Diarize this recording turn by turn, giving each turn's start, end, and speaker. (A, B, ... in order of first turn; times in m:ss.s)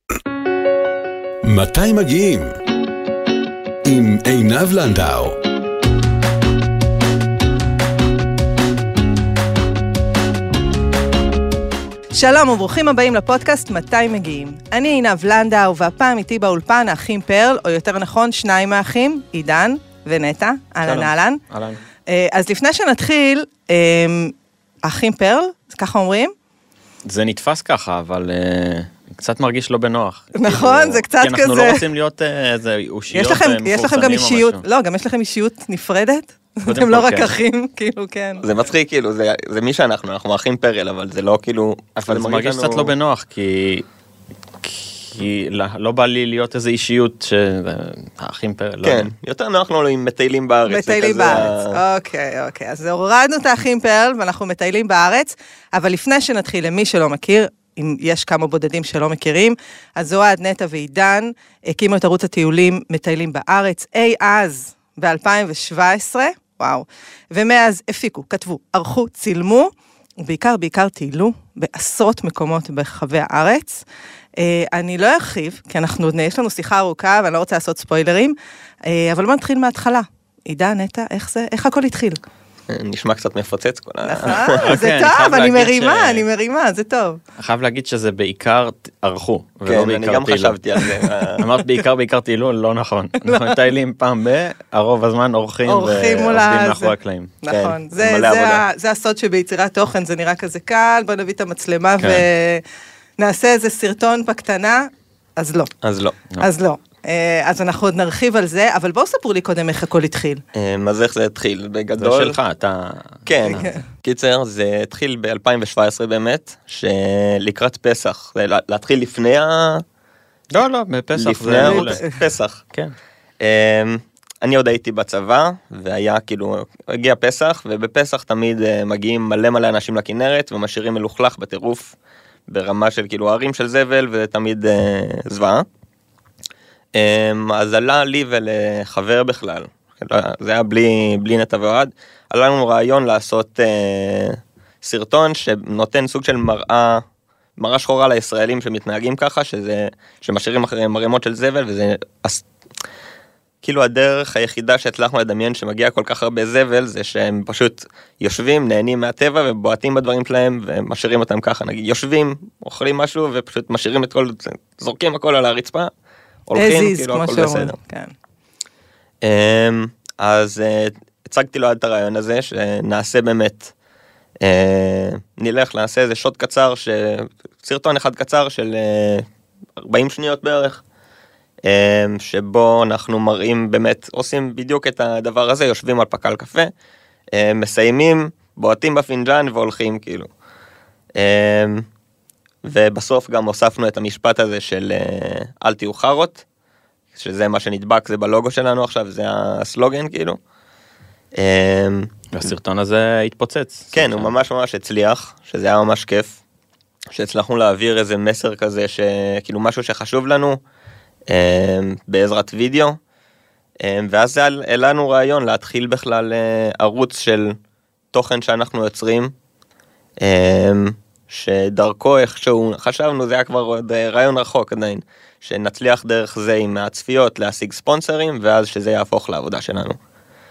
0:01.4-0:02.6 A
0:03.8-0:05.4 A
0:12.1-0:21.4 B
0:20.8-0:21.8 C
0:22.1-0:26.3 B
0:27.0-0:34.6 C
0:30.3-0:31.8 B
0:33.1-0:38.5 B
0:36.7-0:37.3 C
0:38.4-0:42.9 D
0:42.0-0:43.8 C
0:44.6-0:49.1 C
0:48.8-0:51.8 D
0:50.7-1:13.8 B
1:14.4-1:22.2 B
1:22.7-1:24.6 D
1:24.0-1:27.2 B
1:24.3-1:26.2 C
1:27.4-1:37.3 C
1:29.7-1:31.4 D
1:33.2-1:33.6 B
1:35.6-1:42.6 B
1:37.5-1:38.6 D
1:42.0-1:42.2 C
1:43.2-1:45.7 B
1:45.8-1:46.2 D
1:46.4-1:50.4 B
1:50.6-1:52.4 D
1:52.0-1:53.7 C
1:53.3-1:59.8 D
1:53.5-1:53.8 B
2:00.5-2:02.0 C
2:01.2-2:02.6 D
2:01.6-2:02.2 B
2:03.4-2:11.9 D
2:12.5-2:15.7 D
2:17.0-2:27.0 D
2:27.6-2:32.4 D
2:33.6-2:45.9 D
2:46.5-2:47.8 D
2:46.6-2:48.1 B
2:49.2-2:53.7 D
2:54.4-2:59.3 D
2:59.8-3:00.8 D
3:01.7-3:06.7 D
3:07.3-3:10.3 D
3:11.2-3:11.9 D
3:12.6-3:16.4 D
3:17.1-3:20.4 D
3:21.4-3:22.1 D
3:22.3-3:24.3 C
3:23.9-3:26.4 D
3:27.1-3:30.6 D
3:31.3-3:33.0 D
3:33.8-3:37.6 D
3:38.1-3:39.3 D
3:40.2-3:50.0 D